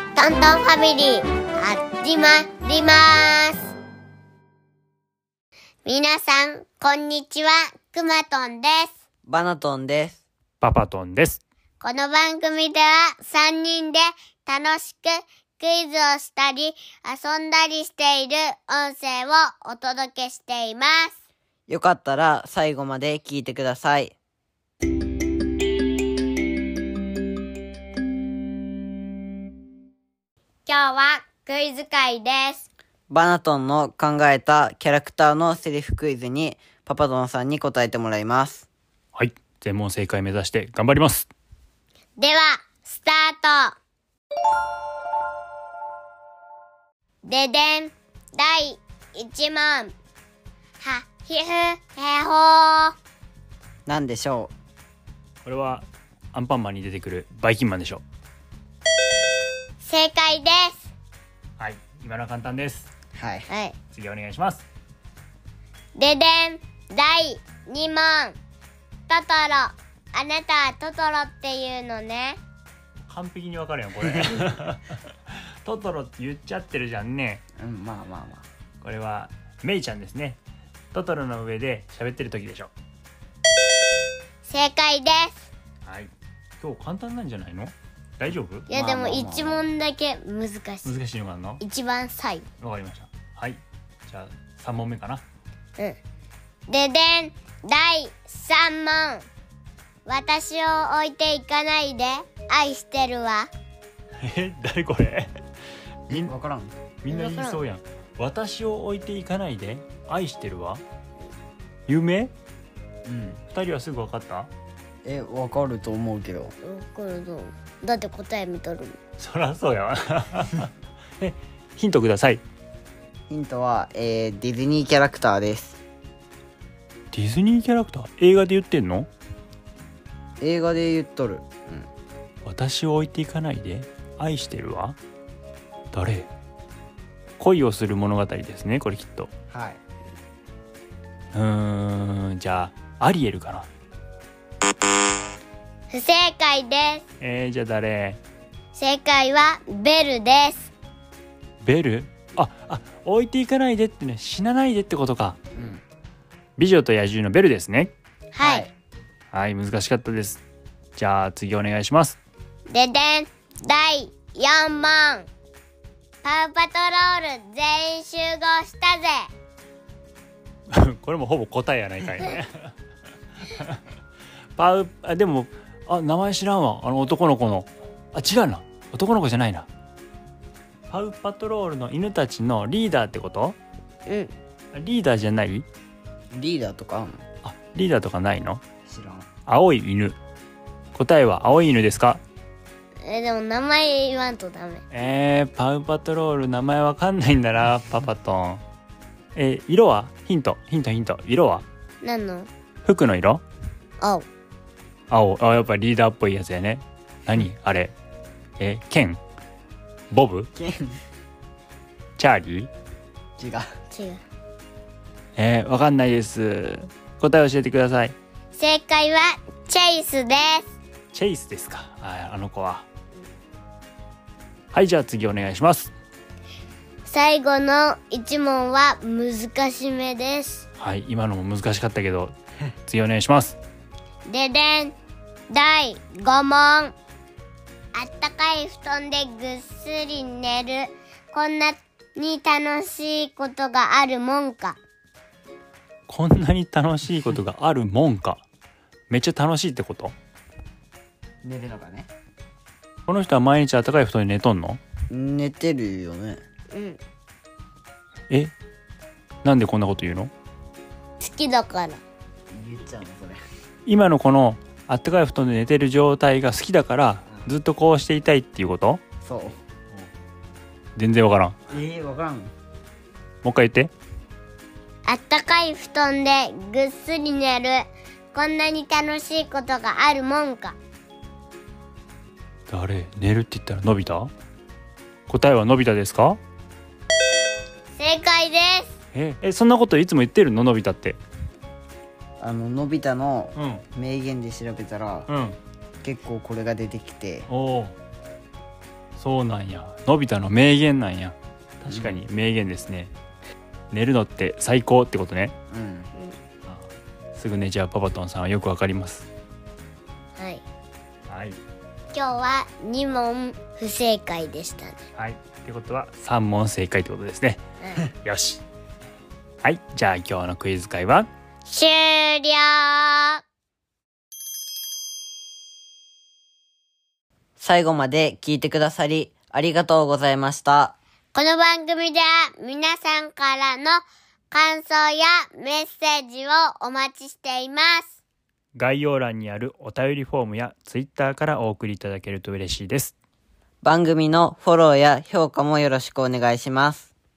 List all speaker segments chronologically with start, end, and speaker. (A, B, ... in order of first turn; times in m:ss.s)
0:00.2-0:03.7 A
0:05.8-0:08.9 A
0:09.3-0:10.2 B
0:10.6-0:11.4 C
0:11.8-0:21.1 A
0:21.7-0:24.1 B
0:30.6-0:32.7 A
0:33.1-0:38.6 B
0:39.1-0:41.3 C
0:42.2-0:43.8 A
0:47.2-0:49.9 A
0:50.8-0:52.9 A
0:53.8-0:54.5 B
0:55.4-0:58.0 C
0:59.8-1:00.9 A
1:01.6-1:02.9 C
1:03.2-1:03.5 B
1:03.5-1:03.8 A
1:03.9-1:04.6 C
1:05.9-1:08.4 A
1:09.1-1:12.4 A
1:13.1-1:17.4 C
1:17.6-1:18.4 B
1:18.8-1:20.4 C
1:20.9-1:22.7 C
1:24.4-1:25.5 A
1:25.8-1:28.7 C
1:28.7-1:31.0 A
1:28.7-1:29.6 B
1:30.8-1:31.6 C
1:31.6-1:32.5 A
1:32.6-1:35.2 C
1:36.7-1:39.2 A
1:40.0-1:43.5 A
1:44.2-1:45.3 C
1:46.1-1:46.7 B
1:47.0-1:50.8 C
1:47.1-1:47.6 A
1:51.9-1:52.3 C
1:53.0-1:53.4 B
1:53.5-1:54.5 C
1:55.0-1:56.5 B
1:56.6-1:59.0 A
1:59.2-2:02.4 C
2:03.3-2:05.8 B
2:07.1-2:09.1 C
2:10.4-2:11.9 B
2:12.4-2:15.0 C
2:15.9-2:16.3 C
2:17.4-2:19.3 C
2:19.5-2:19.8 B
2:21.3-2:23.7 C
2:25.9-2:27.0 A
2:27.2-2:28.2 C
2:28.7-2:30.7 A
2:31.6-2:35.4 C
2:35.5-2:35.8 B
2:36.6-2:37.9 C
2:38.3-2:38.7 A
2:38.4-2:38.7 B
2:39.3-2:40.4 C
2:41.0-2:42.2 C
2:42.7-2:45.3 A
2:46.2-2:49.3 A
2:50.7-2:52.7 C
2:53.4-2:53.8 C
2:54.6-2:59.7 C
3:00.9-3:03.6 C
3:04.1-3:04.3 A
3:04.7-3:05.6 C
3:06.3-3:07.2 B
3:07.4-3:08.6 C
3:08.9-3:09.3 B
3:09.5-3:10.2 C
3:10.9-3:12.2 C
3:13.0-3:14.8 A
3:14.9-3:18.6 C
3:19.3-3:21.6 C
3:22.0-3:22.5 A
3:22.8-3:23.4 C
3:24.0-3:24.2 A
3:25.1-3:27.9 C
3:28.6-3:29.2 C
3:30.1-3:30.5 C
3:30.6-3:31.0 B
3:32.2-3:32.7 C
3:33.4-3:33.7 B
3:33.9-3:34.2 A
3:35.4-3:38.1 C
3:38.5-3:40.7 A
3:41.1-3:42.8 C
3:44.7-3:45.9 C
3:47.0-3:50.6 A
3:50.8-3:52.3 C
3:52.9-3:53.6 C
3:54.2-3:55.0 A
3:55.5-3:56.9 A
3:57.9-4:04.8 A
4:06.1-4:08.4 C
4:09.1-4:10.1 C
4:11.4-4:12.1 B
4:13.0-4:14.8 C
4:15.1-4:16.4 B
4:16.7-4:17.0 A
4:19.4-4:20.3 C
4:21.2-4:22.0 A
4:22.5-4:23.4 B
4:23.8-4:29.0 C
4:29.2-4:29.5 B
4:31.0-4:31.5 C
4:31.7-4:32.5 B
4:33.4-4:33.9 C
4:35.1-4:40.8 A
4:42.7-4:44.3 C
4:45.3-4:46.4 C
4:47.9-4:48.9 A
4:49.1-4:51.2 C
4:52.4-4:55.3 B
4:53.5-4:53.8 C
4:55.3-4:55.6 C
4:56.0-4:57.4 B
4:57.5-4:57.9 C
4:59.2-5:03.1 C
5:03.9-5:05.5 C
5:05.7-5:06.1 B
5:06.6-5:09.3 C
5:10.4-5:10.6 A
5:11.3-5:11.6 C
5:12.1-5:15.0 A
5:15.1-5:18.6 C
5:17.8-5:18.0 A
5:19.6-5:21.3 C
5:21.7-5:23.4 A
5:27.6-5:30.9 B
5:31.3-5:38.1 A
5:38.7-5:43.1 C
5:43.8-5:47.1 B